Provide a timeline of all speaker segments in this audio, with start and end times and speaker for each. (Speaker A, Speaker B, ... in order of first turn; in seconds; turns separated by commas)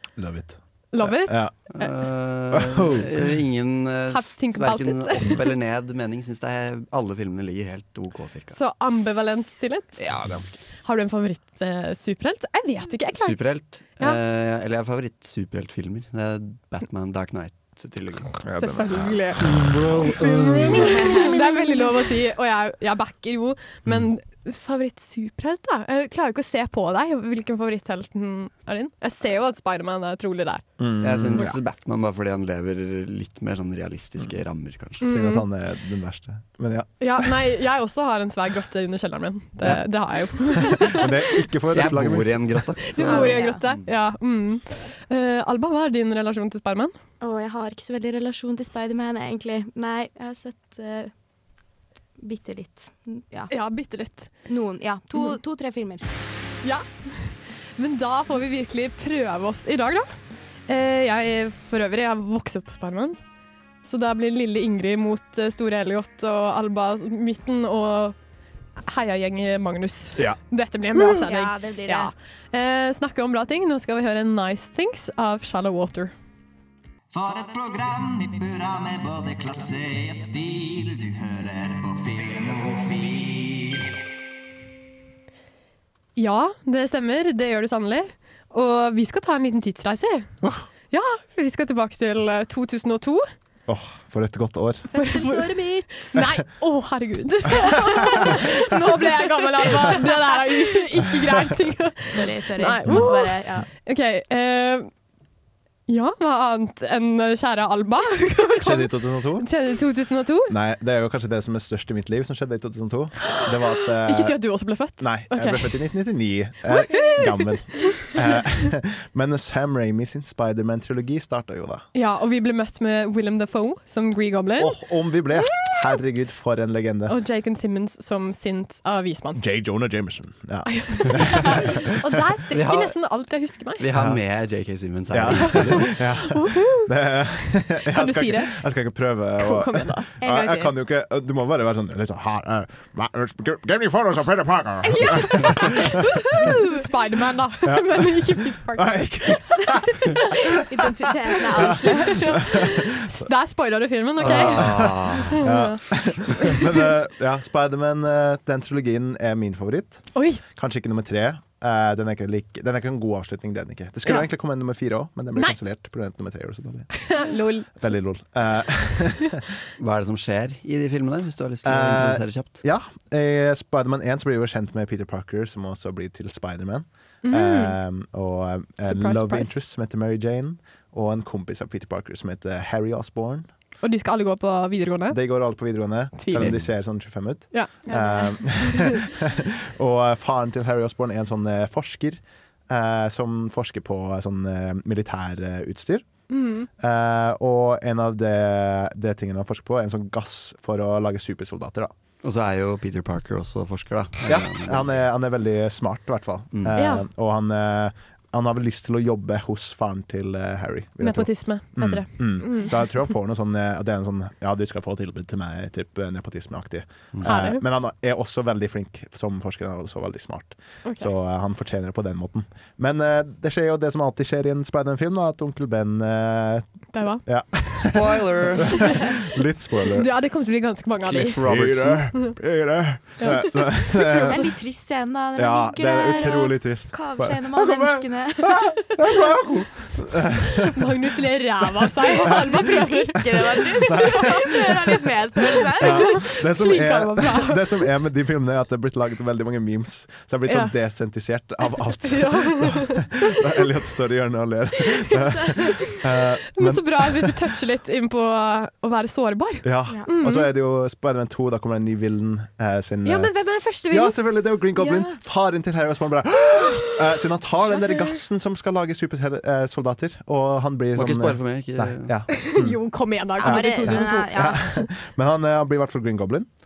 Speaker A: 0.2-1.6, Speaker B: 0.9-1.9, Speaker C: 1.7-8.6, Speaker A: 2.5-3.2, Speaker B: 4.1-5.5, Speaker B: 8.5-10.0, Speaker C: 10.0-10.6, Speaker B: 10.8-13.4, Speaker C: 13.1-18.4, Speaker A: 18.4-21.1, Speaker B: 18.5-19.7, Speaker B: 20.2-30.6, Speaker D: 20.8-21.5, Speaker A: 30.8-31.6, Speaker C: 31.0-35.0, Speaker A: 35.0-37.3, Speaker B: 35.0-35.4, Speaker B: 37.0-41.4, Speaker A: 40.4-42.7, Speaker C: 41.7-43.8, Speaker B: 42.9-46.9, Speaker D: 43.0-43.6, Speaker D: 47.2-51.1, Speaker D: 52.2-53.5, Speaker B: 53.5-54.3, Speaker D: 54.5-56.1, Speaker B: 56.6-60.1, Speaker B: 60.7-63.2, Speaker B: 63.8-68.2, Speaker B: 68.8-76.1, Speaker D: 70.9-72.1, Speaker E: 77.1-83.9, Speaker B: 86.2-90.3, Speaker B: 90.9-93.2, Speaker A: 93.7-94.9, Speaker D: 94.9-96.1, Speaker B: 94.9-104.9, Speaker D: 102.1-103.7, Speaker B: 105.9-110.5, Speaker A: 108.6-109.5, Speaker A: 110.5-114.4, Speaker B: 113.2-115.8, Speaker A: 115.0-121.8, Speaker B: 116.7-118.1, Speaker B: 121.9-124.8, Speaker A: 124.6-127.2, Speaker B: 125.4-125.8, Speaker B: 127.1-129.4, Speaker A: 129.3-131.9, Speaker B: 130.7-133.8, Speaker C: 132.5-132.9, Speaker C: 133.8-136.0, Speaker A: 133.9-134.2, Speaker A: 135.1-146.5, Speaker B: 135.5-136.9, Speaker B: 137.8-138.6, Speaker B: 139.4-140.1, Speaker D: 140.2-140.8, Speaker B: 144.8-149.8, Speaker A: 147.6-150.4, Speaker D: 150.6-152.4, Speaker A: 151.5-152.9, Speaker B: 151.6-156.6, Speaker C: 154.2-155.4, Speaker A: 154.2-167.0, Speaker B: 160.1-160.4, Speaker B: 166.9-167.7, Speaker A: 167.7-169.4, Speaker C: 169.8-172.5, Speaker A: 171.6-183.5, Speaker B: 177.2-177.8, Speaker B: 178.8-179.6, Speaker B: 183.8-185.2, Speaker A: 185.1-196.1, Speaker B: 186.2-186.5, Speaker C: 186.3-186.7, Speaker B: 187.5-189.0, Speaker B: 196.3-196.7, Speaker A: 196.8-201.9, Speaker C: 202.2-205.0, Speaker A: 204.2-226.7, Speaker B: 206.7-207.0, Speaker B: 211.0-212.7, Speaker B: 217.2-217.6, Speaker B: 220.8-221.1, Speaker B: 226.9-227.2, Speaker A: 227.2-230.1, Speaker C: 227.7-228.9, Speaker B: 229.9-231.4, Speaker C: 231.0-232.1, Speaker A: 231.4-234.5, Speaker B: 233.2-234.3, Speaker D: 234.1-239.0, Speaker A: 235.3-240.9, Speaker B: 240.6-244.3, Speaker D: 242.2-246.3, Speaker A: 242.2-242.6, Speaker A: 243.2-257.4, Speaker B: 245.8-247.7, Speaker B: 250.4-250.7, Speaker B: 251.7-253.3, Speaker B: 255.1-256.0, Speaker B: 256.5-260.5, Speaker A: 259.6-263.3, Speaker B: 263.0-264.2, Speaker A: 263.9-272.8, Speaker B: 264.8-265.1, Speaker C: 270.9-272.1, Speaker B: 272.3-274.9, Speaker A: 273.4-276.5, Speaker D: 273.4-274.6